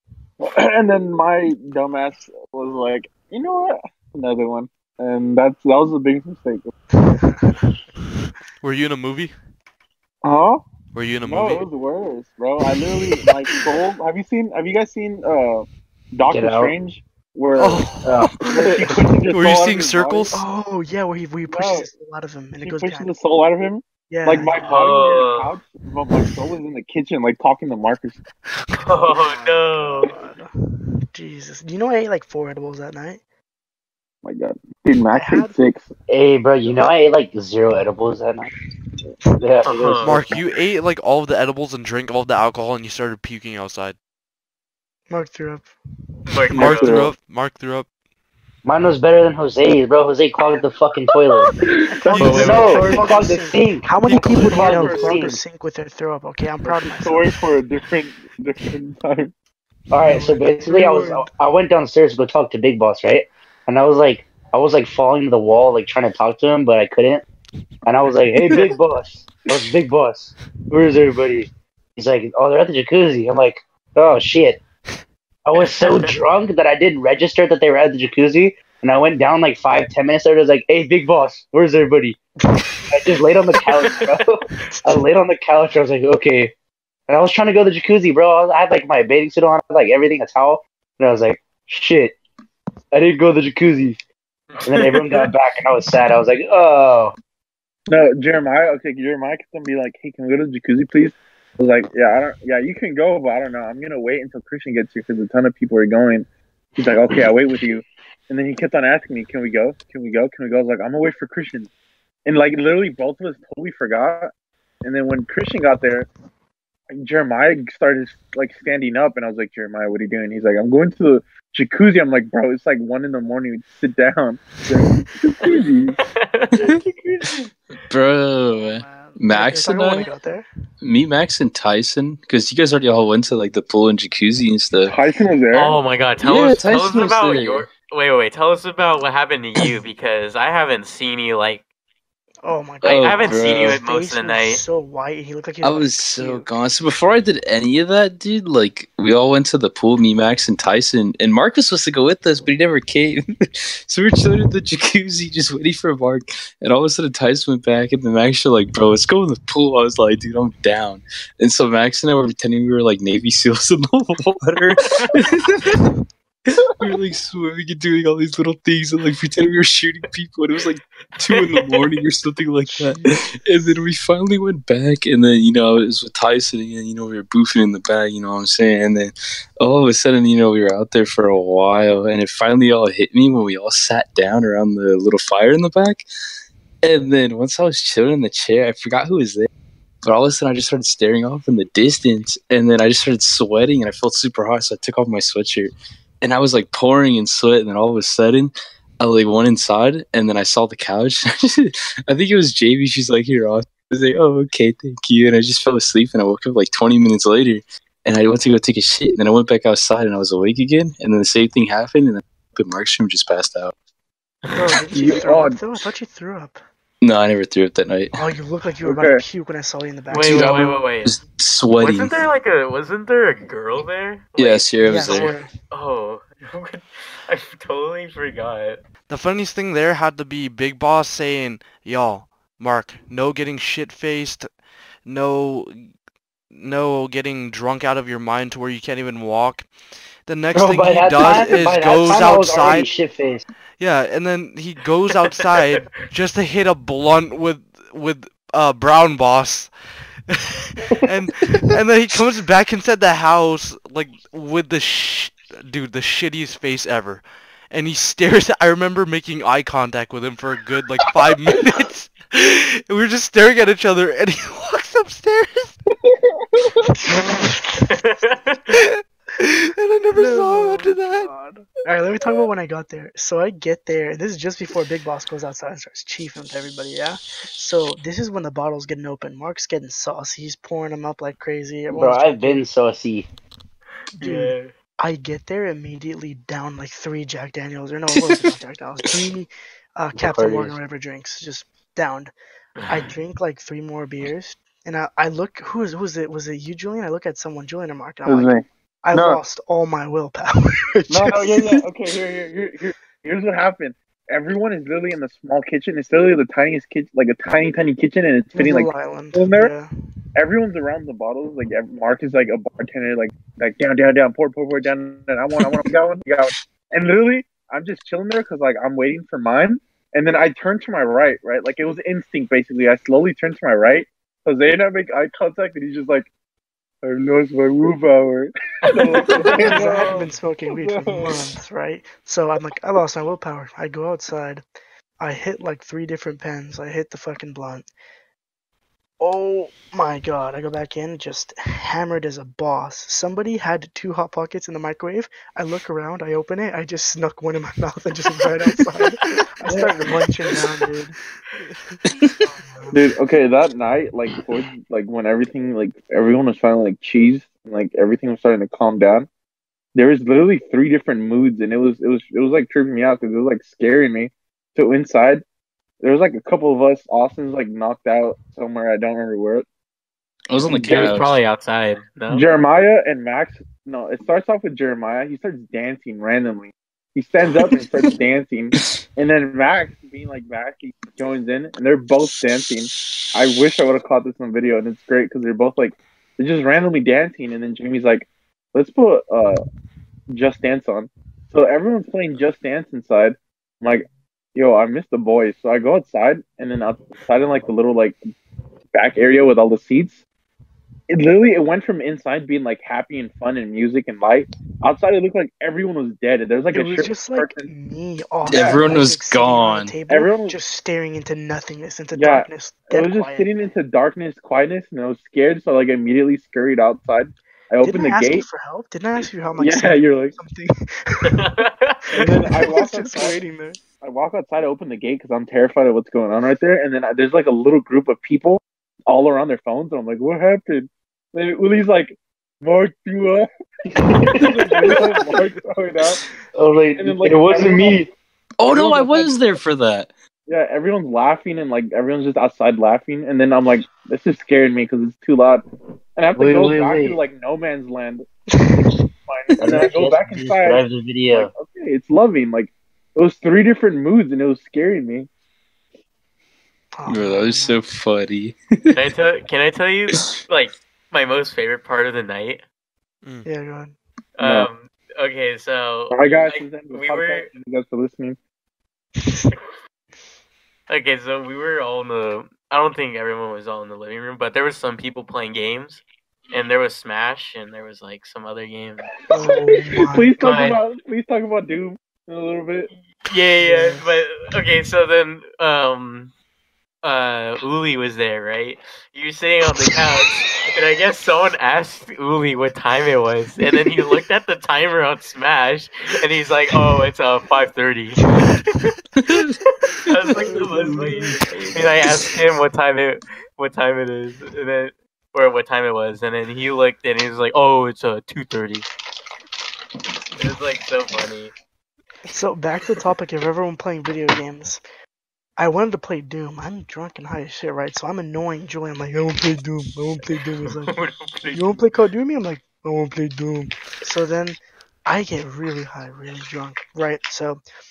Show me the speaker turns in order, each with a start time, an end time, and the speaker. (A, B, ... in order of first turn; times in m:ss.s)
0:00.4-0:06.7 A
0:07.0-0:07.8 B
0:08.6-0:09.3 C
0:10.2-0:10.6 A
0:10.9-0:11.7 C
0:11.2-0:20.4 A
0:13.0-0:13.6 C
0:16.3-0:16.7 D
0:17.6-0:18.5 C
0:18.0-0:18.3 D
0:19.3-0:20.4 C
0:20.3-0:23.1 B
0:21.5-0:21.9 A
0:22.6-0:28.2 A
0:24.1-0:24.7 B
0:24.6-0:25.6 E
0:28.7-0:30.1 E
0:29.0-0:30.5 B
0:31.1-0:33.2 B
0:34.2-0:35.9 A
0:35.1-0:35.5 B
0:36.1-0:38.5 D
0:39.4-0:40.4 D
0:39.6-0:40.2 E
0:40.0-0:44.0 C
0:45.1-0:45.7 B
0:46.3-0:47.1 E
0:46.5-0:47.1 A
0:46.5-0:47.9 C
0:48.6-0:51.5 D
0:51.4-0:53.0 A
0:51.9-0:57.4 B
0:52.2-0:52.6 C
0:52.2-0:52.8 E
0:52.2-0:55.4 D
0:54.1-0:55.2 A
0:56.6-0:59.3 A
0:59.9-1:07.2 D
1:00.1-1:01.3 B
1:07.9-1:14.6 D
1:15.5-1:22.2 D
1:15.6-1:16.1 E
1:22.9-1:26.5 D
1:24.7-1:25.0 B
1:27.1-1:32.2 D
1:32.9-1:34.0 D
1:34.5-1:35.3 E
1:34.6-1:37.2 D
1:37.9-1:46.3 A
1:46.8-1:51.7 A
1:52.3-1:54.3 A
1:54.8-1:56.1 A
1:56.9-2:06.0 A
2:05.4-2:07.5 E
2:07.9-2:10.1 F
2:08.6-2:10.5 B
2:10.8-2:14.9 F
2:14.9-2:15.8 A
2:15.5-2:21.6 E
2:16.2-2:17.7 F
2:22.4-2:26.5 B
2:22.8-2:23.8 F
2:22.8-2:24.6 E
2:25.6-2:45.9 F
2:46.5-3:06.0 F
2:51.2-2:51.9 E
2:52.7-2:53.1 B
3:06.8-3:09.5 F
3:10.0-3:33.7 F
3:34.4-3:34.8 E
3:34.5-3:36.6 B
3:34.9-3:35.6 A
3:37.0-3:38.2 F
3:38.2-3:40.8 B
3:38.8-3:39.2 A
3:40.1-3:41.1 E
3:40.2-3:42.2 F
3:41.8-3:48.8 E
3:44.4-3:45.4 F
3:44.8-3:45.5 B
3:49.1-3:54.5 C
3:55.1-3:55.9 C
3:56.5-3:59.7 C
4:00.3-4:02.9 C
4:00.5-4:03.4 D
4:03.8-4:09.7 C
4:10.3-4:25.8 C
4:26.1-4:26.8 A
4:26.8-4:28.0 B
4:27.8-4:28.8 E
4:28.7-4:31.3 C
4:30.2-4:42.6 B
4:41.9-4:43.3 D
4:44.2-4:44.7 E
4:44.2-4:52.3 B
4:48.1-4:48.5 F
4:50.2-4:50.8 D
4:52.8-4:53.1 E
4:52.9-4:58.5 B
4:58.3-4:59.4 A
4:59.0-5:01.8 B
5:01.1-5:09.7 A
5:08.6-5:09.9 B
5:10.4-5:26.3 A
5:27.0-5:31.5 A
5:28.8-5:29.8 E
5:29.4-5:34.6 B
5:35.2-5:37.9 B
5:39.2-5:51.2 B
5:49.6-5:50.1 A
5:51.7-5:52.0 C
5:52.1-5:52.4 F
5:52.4-5:53.0 B
5:52.9-5:59.3 A
6:00.0-6:05.4 A
6:06.0-6:09.7 A
6:10.5-6:11.3 F
6:10.7-6:11.2 A
6:10.8-6:12.5 E
6:12.3-6:29.6 A
6:17.6-6:18.1 F
6:18.8-6:19.0 F
6:30.3-6:38.2 A
6:38.9-6:40.2 A
6:41.1-6:47.7 A
6:46.7-6:53.5 B
6:48.5-6:50.0 F
6:48.5-6:48.9 A
6:50.1-6:50.6 A
6:52.1-6:58.5 A
6:57.8-7:01.5 B
6:59.6-7:00.4 A
7:01.3-7:02.2 E
7:02.2-7:03.4 A
7:02.2-7:03.8 B
7:04.0-7:13.5 A
7:13.9-7:14.6 D
7:14.2-7:16.2 A
7:16.6-7:18.1 D
7:17.0-7:18.1 A
7:18.6-7:20.1 F
7:18.7-7:19.5 A
7:20.5-7:25.6 A
7:26.2-7:28.2 A
7:26.4-7:27.2 D
7:28.5-7:29.0 B
7:28.8-7:35.3 A
7:29.5-7:29.8 F
7:29.6-7:31.5 D
7:37.0-7:37.8 B
7:37.1-7:39.0 F
7:38.9-7:42.6 E
7:43.4-7:44.0 B
7:44.4-7:47.5 E
7:44.4-7:44.7 A
7:46.1-7:48.4 A
7:49.2-7:49.5 B
7:50.9-7:59.1 E
7:59.3-8:02.9 A
7:59.3-8:00.3 B
8:00.4-8:00.8 E
8:03.2-8:06.3 E
8:03.6-8:04.0 B
8:07.0-8:18.9 E
8:19.2-8:21.4 F
8:19.8-8:28.9 E
8:20.4-8:21.1 B
8:21.5-8:21.9 A
8:30.4-8:31.5 E
8:32.3-8:34.8 B
8:35.6-8:41.0 B
8:40.7-8:41.8 E
8:41.5-8:47.6 B